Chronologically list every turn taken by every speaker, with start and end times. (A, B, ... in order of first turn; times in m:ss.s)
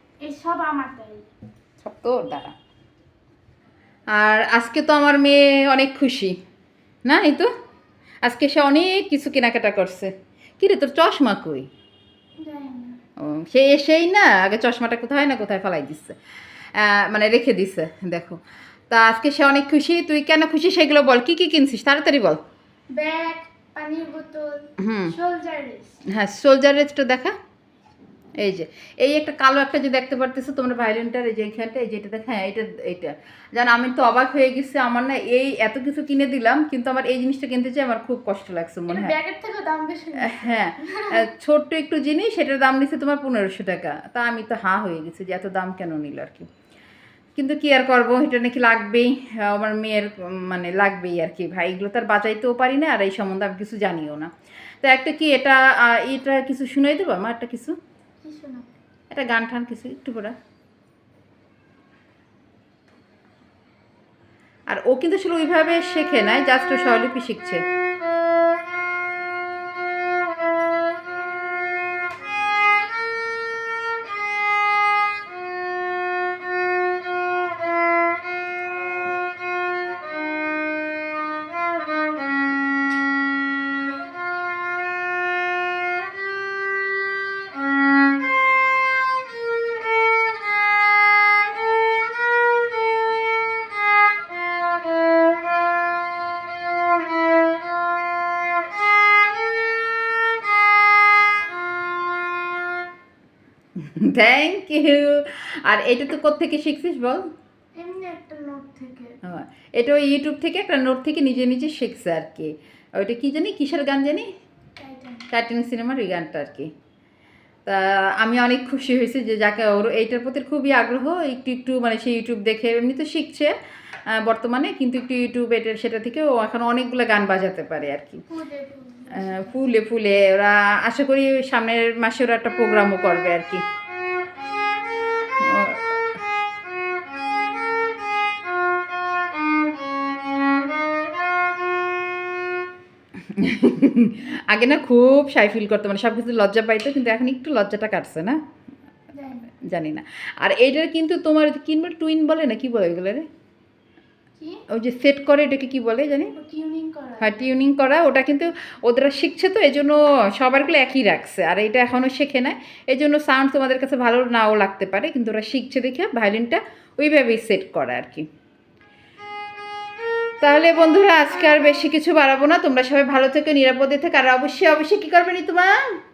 0:00.2-0:01.3 A
0:01.8-0:02.5 B
0:04.2-0:06.4 B
0:07.0-0:07.5 B
0:08.2-0:11.7 B
0:12.4-0:13.0 A
0:13.2-0:16.2 B
0:16.8-0:22.4 B
0:22.9-0:26.0 A
0:24.8-0:25.2 B
0:26.1-0:27.3 B
0:28.4-0:39.1 B
0:38.9-0:41.2 A
0:40.2-0:46.5 B
0:47.4-0:54.3 B
0:54.8-0:57.8 B
0:58.2-0:58.7 A
0:59.1-1:00.4 B
1:04.7-1:07.6 B
1:43.8-1:47.3 B
1:47.8-1:49.2 A
1:49.2-1:54.3 B
1:54.8-1:55.3 A
1:55.3-1:56.7 B
1:57.7-2:03.5 B
2:04.1-2:08.3 B
2:08.3-2:09.5 A
2:09.1-2:13.6 B
2:15.4-2:15.9 B
2:23.2-2:28.4 B
2:29.1-2:29.5 A
2:29.6-2:33.3 B
2:34.7-2:36.3 B
2:36.2-2:37.3 A
2:37.2-2:48.3 B
2:50.4-2:55.7 B